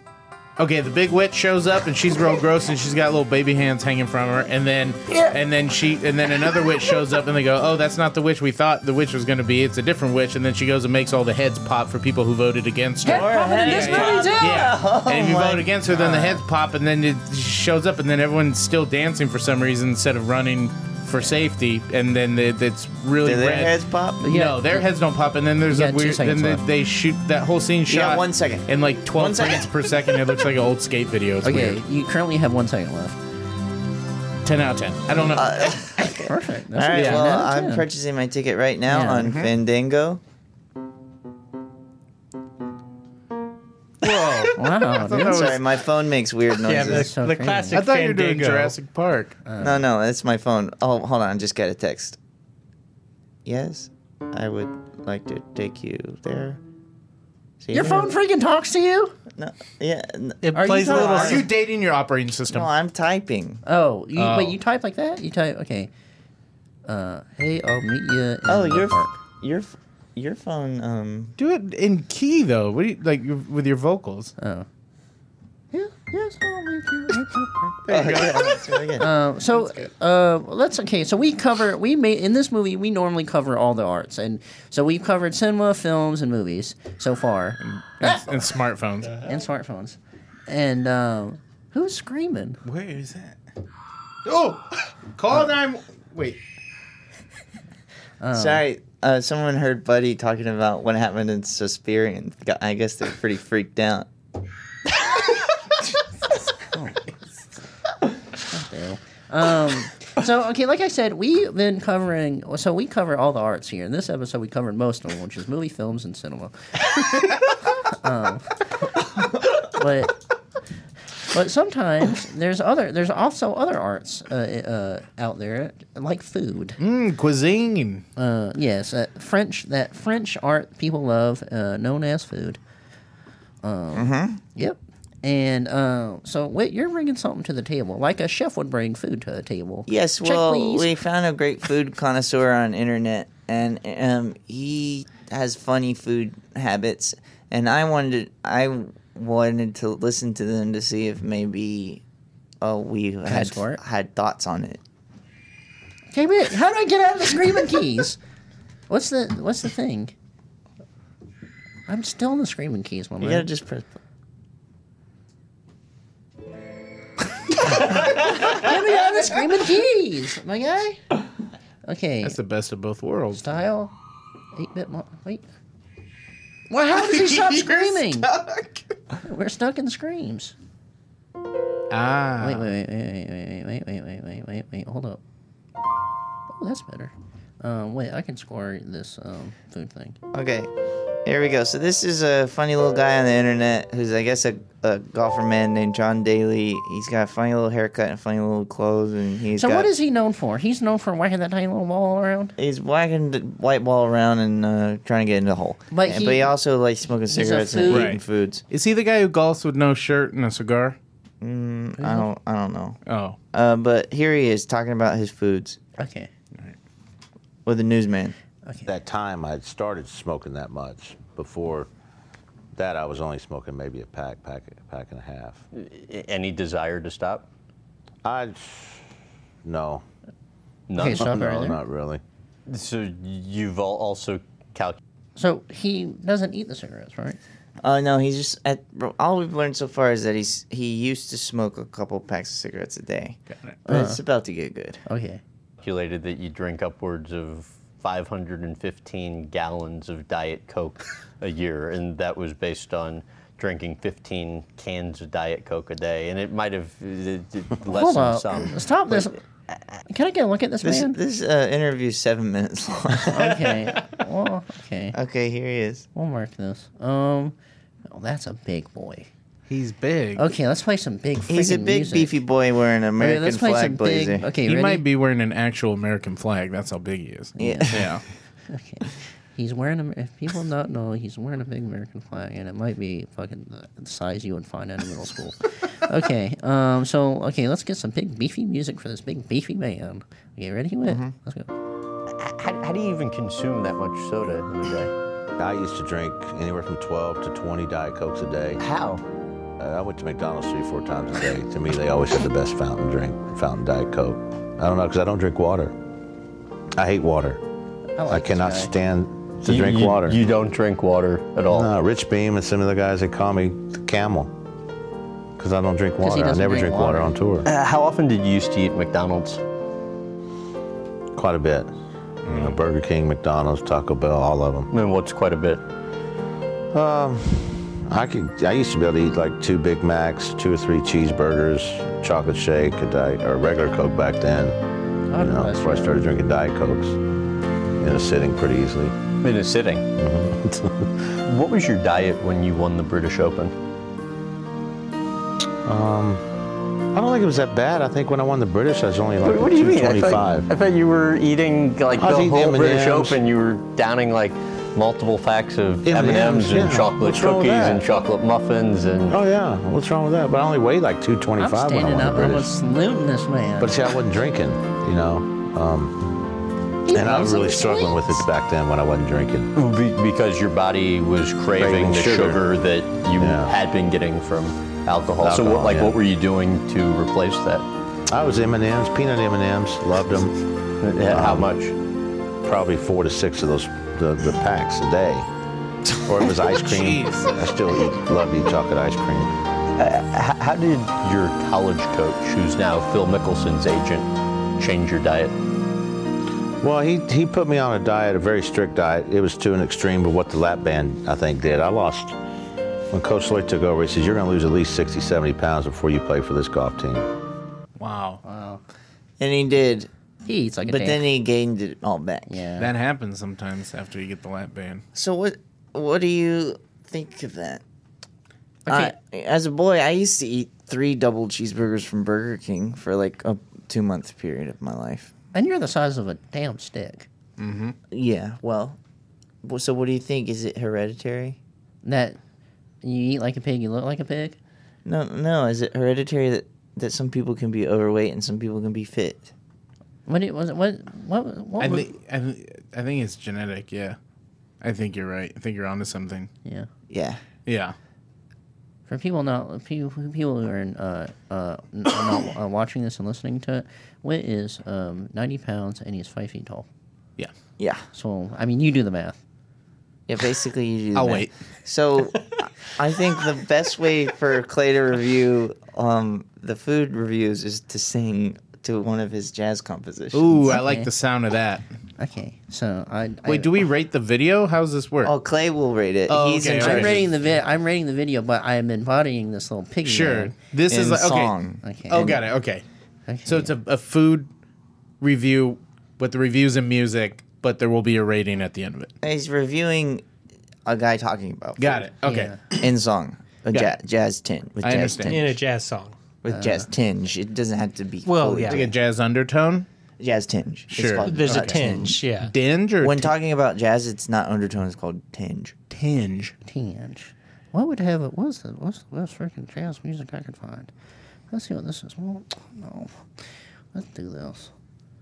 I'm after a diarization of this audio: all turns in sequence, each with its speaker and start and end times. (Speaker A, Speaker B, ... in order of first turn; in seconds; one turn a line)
Speaker A: 0.6-31.8
Speaker B: 13.0-14.7
Speaker C: 13.1-16.4
Speaker C: 23.2-24.2
Speaker B: 24.2-24.9
Speaker B: 25.7-26.6
Speaker C: 27.9-29.7
Speaker B: 31.4-33.2
Speaker A: 34.4-36.0
Speaker C: 35.3-40.2
Speaker B: 36.2-37.9
Speaker A: 36.9-37.2
Speaker B: 38.9-39.3
Speaker A: 44.0-45.6
Speaker B: 44.5-45.5
Speaker C: 45.1-47.1
Speaker D: 46.6-48.7
Speaker B: 46.7-47.8
Speaker A: 47.7-49.4
Speaker B: 49.5-49.8
Speaker C: 49.6-52.2
Speaker C: 53.4-56.6
Speaker C: 57.6-58.1
Speaker B: 57.7-59.1
Speaker C: 59.4-61.4
Speaker D: 60.4-61.4
Speaker B: 60.5-61.4
Speaker A: 61.1-62.7
Speaker C: 62.5-63.6
Speaker B: 63.6-65.9
Speaker A: 64.2-64.6
Speaker B: 66.8-69.1
Speaker C: 68.5-71.3
Speaker A: 71.4-74.3
Speaker B: 74.4-74.7
Speaker B: 75.7-77.8
Speaker A: 77.9-78.6
Speaker C: 77.9-79.1
Speaker B: 79.0-88.5
Speaker A: 87.6-89.2
Speaker B: 89.2-92.6
Speaker A: 92.6-93.4
Speaker A: 94.2-96.4
Speaker B: 98.2-98.6
Speaker C: 98.3-104.1
Speaker B: 106.7-107.0
Speaker B: 108.4-118.7
Speaker B: 119.5-120.2
Speaker B: 121.3-126.8
Speaker A: 126.8-128.0
Speaker B: 128.2-132.6
Speaker B: 133.6-140.9
Speaker C: 133.9-134.4
Speaker C: 139.9-152.0
Speaker C: 152.6-154.8
Speaker B: 153.2-153.8
Speaker B: 156.1-158.2
Speaker B: 158.9-160.1
Speaker B: 161.9-163.5
Speaker C: 163.2-163.9
Speaker B: 167.7-171.0
Speaker B: 171.8-172.3
Speaker A: 172.2-173.4
Speaker B: 173.3-173.9
Speaker B: 174.5-175.4
Speaker B: 176.7-178.3
Speaker A: 176.9-178.7
Speaker B: 179.2-180.5
Speaker A: 181.9-182.7
Speaker B: 182.4-185.2
Speaker B: 186.5-190.2
Speaker C: 190.3-190.7
Speaker C: 191.2-199.9
Speaker B: 199.6-202.5
Speaker C: 202.6-208.6
Speaker B: 205.9-206.5
Speaker B: 207.3-208.1
Speaker A: 207.9-211.0
Speaker C: 211.4-213.0
Speaker B: 212.0-212.3
Speaker A: 213.1-213.4
Speaker C: 213.5-215.8
Speaker B: 216.0-216.3
Speaker C: 217.7-218.3
Speaker B: 218.6-218.9
Speaker E: 218.8-221.9
Speaker E: 222.7-225.6
Speaker F: 225.7-227.5
Speaker E: 228.2-229.0
Speaker E: 229.6-230.0
Speaker F: 230.9-231.7
Speaker B: 230.9-231.8
Speaker E: 231.1-232.2
Speaker F: 232.7-235.0
Speaker B: 235.3-237.4
Speaker C: 237.8-245.0
Speaker A: 243.5-243.8
Speaker B: 243.9-244.2
Speaker B: 245.1-245.4
Speaker F: 245.8-259.3
Speaker B: 257.9-259.4
Speaker B: 260.1-261.2
Speaker C: 260.8-263.7
Speaker B: 263.2-265.1
Speaker C: 265.1-266.1
Speaker B: 266.1-267.5
Speaker B: 268.1-269.3
Speaker A: 269.7-270.4
Speaker B: 270.4-272.4
Speaker C: 271.5-274.5
Speaker B: 273.2-275.0
Speaker A: 274.6-278.2
Speaker B: 277.6-277.9
Speaker C: 277.6-278.1
Speaker B: 278.7-291.7
Speaker C: 291.1-291.3
Speaker F: 292.3-295.1
Speaker E: 295.6-298.8
Speaker F: 298.8-299.2
Speaker E: 299.8-305.9
Speaker E: 307.0-307.6
Speaker B: 308.2-308.9
Speaker E: 308.3-310.4
Speaker F: 309.6-311.9
Speaker E: 311.7-314.5
Speaker E: 315.6-317.6
Speaker B: 316.2-317.3
Speaker F: 317.6-319.6
Speaker E: 321.3-321.9
Speaker A: 322.4-322.8
Speaker E: 322.5-324.9
Speaker F: 324.9-325.8
Speaker E: 326.9-334.8
Speaker B: 335.3-336.2
Speaker E: 335.4-337.2
Speaker E: 338.0-339.2
Speaker F: 339.4-340.1
Speaker E: 340.1-341.1
Speaker F: 341.4-343.7
Speaker E: 345.8-346.4
Speaker E: 347.1-350.7
Speaker F: 349.4-359.4
Speaker E: 352.1-353.4
Speaker E: 356.0-358.1
Speaker E: 359.3-362.7
Speaker B: 361.6-364.0
Speaker E: 363.8-366.1
Speaker B: 367.0-368.4
Speaker E: 367.1-369.7
Speaker F: 369.7-377.9
Speaker E: 371.8-372.6
Speaker E: 373.4-373.7
Speaker E: 375.4-376.2
Speaker E: 378.3-380.5
Speaker F: 381.0-381.9
Speaker E: 381.3-381.7
Speaker E: 382.6-385.5
Speaker E: 386.2-389.5
Speaker A: 386.6-387.9
Speaker F: 389.9-395.6
Speaker E: 396.8-402.4
Speaker E: 403.1-407.3
Speaker A: 408.0-408.4
Speaker B: 408.4-408.8
Speaker C: 409.4-410.1
Speaker B: 410.4-411.2
Speaker C: 410.9-412.5
Speaker B: 412.5-412.9
Speaker A: 412.8-415.0
Speaker C: 415.1-417.8
Speaker B: 418.9-419.1
Speaker C: 418.9-425.3
Speaker B: 425.5-427.3
Speaker A: 427.6-427.9
Speaker C: 428.1-429.0
Speaker C: 429.6-431.6
Speaker B: 432.0-432.4
Speaker B: 433.0-434.6
Speaker C: 435.0-439.5
Speaker B: 440.3-442.1
Speaker A: 441.8-444.2
Speaker A: 444.8-446.5
Speaker C: 447.1-447.4
Speaker A: 447.6-447.9
Speaker B: 449.1-456.9
Speaker C: 457.8-458.0
Speaker B: 458.1-459.4
Speaker C: 460.3-470.7
Speaker A: 461.1-461.5
Speaker A: 470.3-471.8
Speaker B: 470.7-471.1
Speaker B: 472.2-473.7
Speaker A: 473.4-475.3
Speaker C: 475.2-477.3
Speaker A: 476.3-477.2
Speaker B: 476.8-480.5
Speaker A: 480.0-481.6
Speaker C: 480.9-482.4
Speaker B: 481.8-482.3
Speaker A: 482.1-482.8
Speaker B: 483.3-483.7
Speaker A: 483.4-484.5
Speaker A: 485.2-489.1
Speaker C: 489.2-490.2
Speaker C: 490.8-492.0
Speaker A: 491.8-492.8
Speaker B: 492.2-492.6
Speaker C: 492.8-495.4
Speaker A: 494.8-495.4
Speaker D: 495.3-496.1
Speaker C: 496.4-498.9
Speaker B: 496.5-496.9
Speaker D: 498.2-498.9
Speaker A: 498.7-499.9
Speaker C: 500.2-502.2
Speaker A: 500.9-503.3
Speaker D: 501.2-502.5
Speaker C: 503.0-505.8
Speaker A: 505.9-506.5
Speaker B: 506.6-510.9
Speaker B: 511.5-514.7